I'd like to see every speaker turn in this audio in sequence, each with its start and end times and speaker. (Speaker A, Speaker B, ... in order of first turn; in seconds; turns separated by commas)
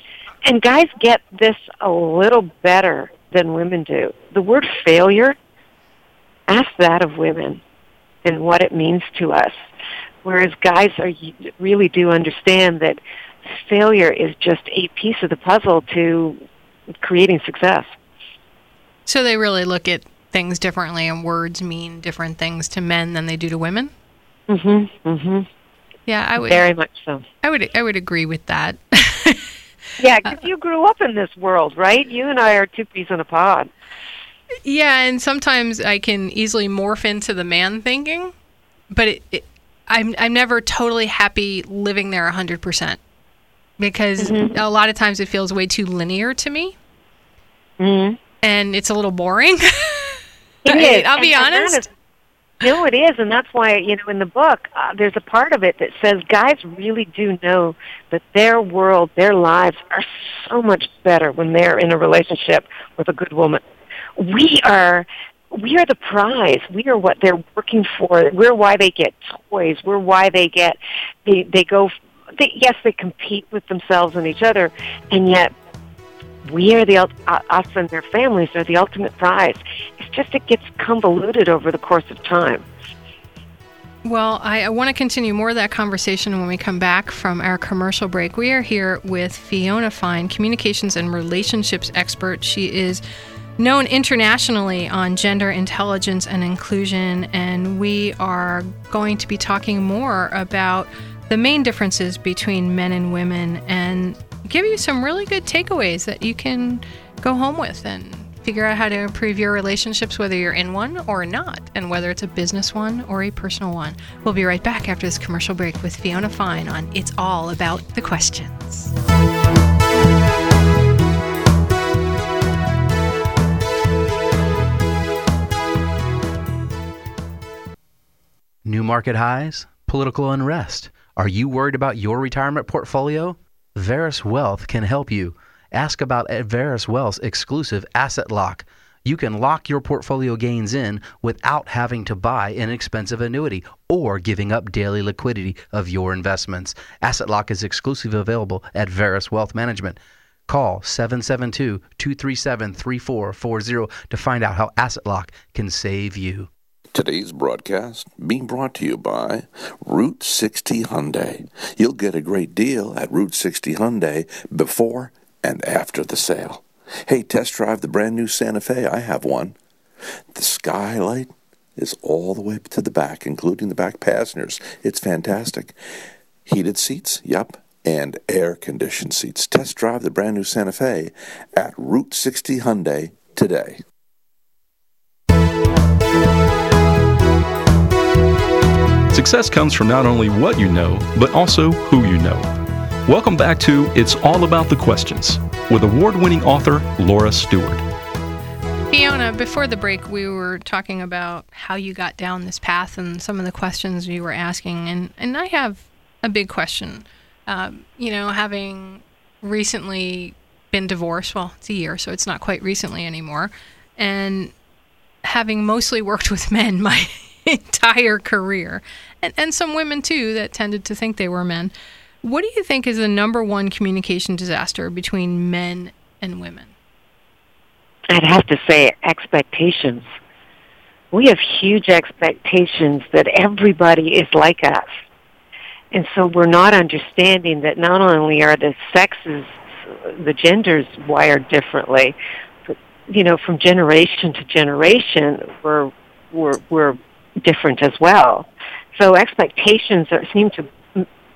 Speaker A: 0.4-5.3, Speaker A: 6.5-7.6, Speaker A: 8.2-9.5, Speaker A: 10.2-13.0, Speaker A: 13.5-16.4, Speaker A: 17.0-17.9, Speaker B: 19.1-23.9, Speaker A: 24.5-25.5, Speaker B: 26.1-26.6, Speaker A: 26.4-27.2, Speaker B: 27.4-29.5, Speaker A: 30.0-33.7, Speaker B: 34.6-38.3, Speaker B: 38.9-43.0, Speaker B: 43.8-46.8, Speaker A: 44.2-44.5, Speaker A: 47.8-48.2, Speaker B: 48.4-51.9, Speaker A: 50.6-51.9, Speaker A: 52.6-63.6, Speaker A: 64.2-75.5, Speaker A: 76.4-82.6, Speaker B: 84.0-93.0, Speaker B: 93.6-118.9, Speaker C: 128.6-156.5, Speaker D: 156.9-169.5, Speaker D: 170.3-175.7, Speaker D: 176.4-183.8, Speaker E: 189.1-192.5, Speaker E: 193.1-197.8, Speaker B: 198.9-214.5, Speaker B: 215.2-226.7, Speaker A: 228.1-230.1, Speaker A: 231.1-234.9, Speaker A: 235.9-239.5, Speaker A: 240.1-242.2, Speaker A: 242.7-251.0